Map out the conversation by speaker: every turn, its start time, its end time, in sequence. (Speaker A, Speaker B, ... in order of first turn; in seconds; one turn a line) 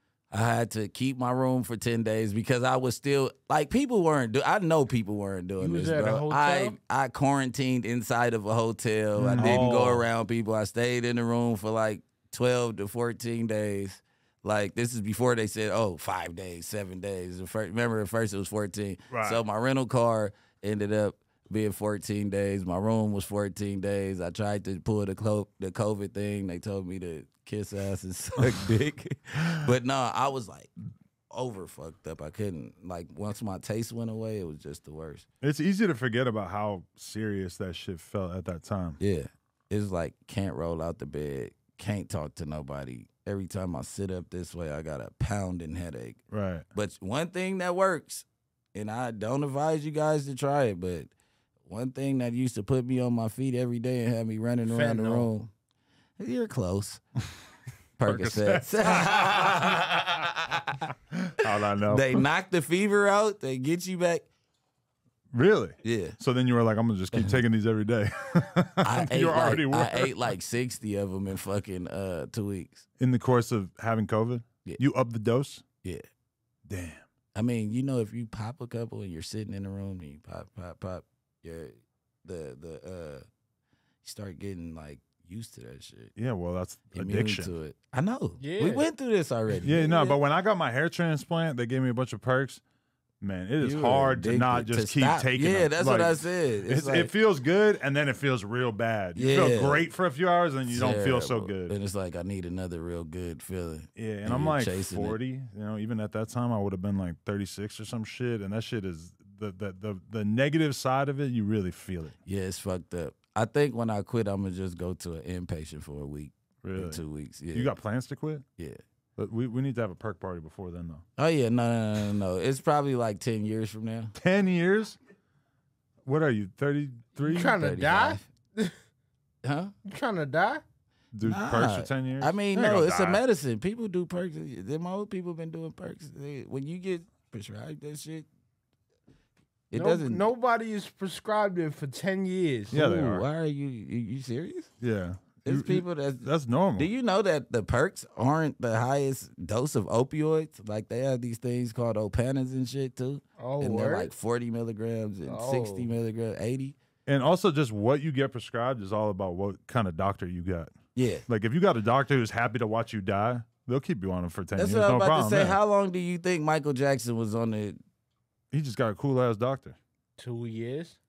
Speaker A: 0.3-30.7
Speaker B: 5.6-6.8
Speaker C: 9.2-10.1
Speaker B: 9.4-9.7
Speaker C: 19.1-19.4
Speaker A: 31.3-35.2
Speaker C: 35.4-39.0
Speaker A: 39.0-46.2
Speaker C: 46.3-46.7
Speaker A: 46.7-51.1
Speaker A: 51.6-55.5
Speaker B: 54.6-55.3
Speaker A: 56.2-57.0
Speaker A: 58.0-60.9
Speaker C: 58.0-59.6
Speaker C: 61.4-62.2
Speaker A: 61.9-64.2
Speaker C: 65.3-70.1
Speaker A: 65.8-66.2
Speaker A: 67.1-67.4
Speaker A: 68.8-72.8
Speaker C: 73.0-75.6
Speaker C: 76.7-77.1
Speaker A: 77.3-83.2
Speaker A: 84.0-86.1
Speaker C: 86.2-87.5
Speaker A: 86.9-90.1
Speaker B: 88.4-88.9
Speaker C: 89.6-92.6
Speaker C: 93.2-101.7
Speaker A: 93.6-97.1
Speaker A: 99.1-99.8
Speaker A: 100.7-105.2
Speaker C: 104.0-112.2
Speaker A: 112.2-117.7
Speaker C: 116.6-118.4
Speaker C: 119.2-121.0
Speaker A: 121.2-124.1
Speaker C: 124.1-125.0
Speaker C: 126.0-127.6
Speaker B: 127.2-128.7
Speaker A: 127.5-128.2
Speaker A: 129.4-129.7
Speaker B: 129.8-130.6
Speaker C: 131.1-133.2
Speaker A: 131.2-138.2
Speaker A: 139.7-140.2
Speaker B: 139.7-142.7
Speaker A: 142.7-144.7
Speaker C: 142.7-143.3
Speaker C: 144.8-146.9
Speaker A: 145.4-156.8
Speaker B: 153.4-154.1
Speaker B: 155.2-155.9
Speaker C: 157.1-160.7
Speaker A: 160.9-161.2
Speaker C: 161.3-165.6
Speaker A: 164.6-167.8
Speaker C: 168.5-169.8
Speaker B: 170.2-171.0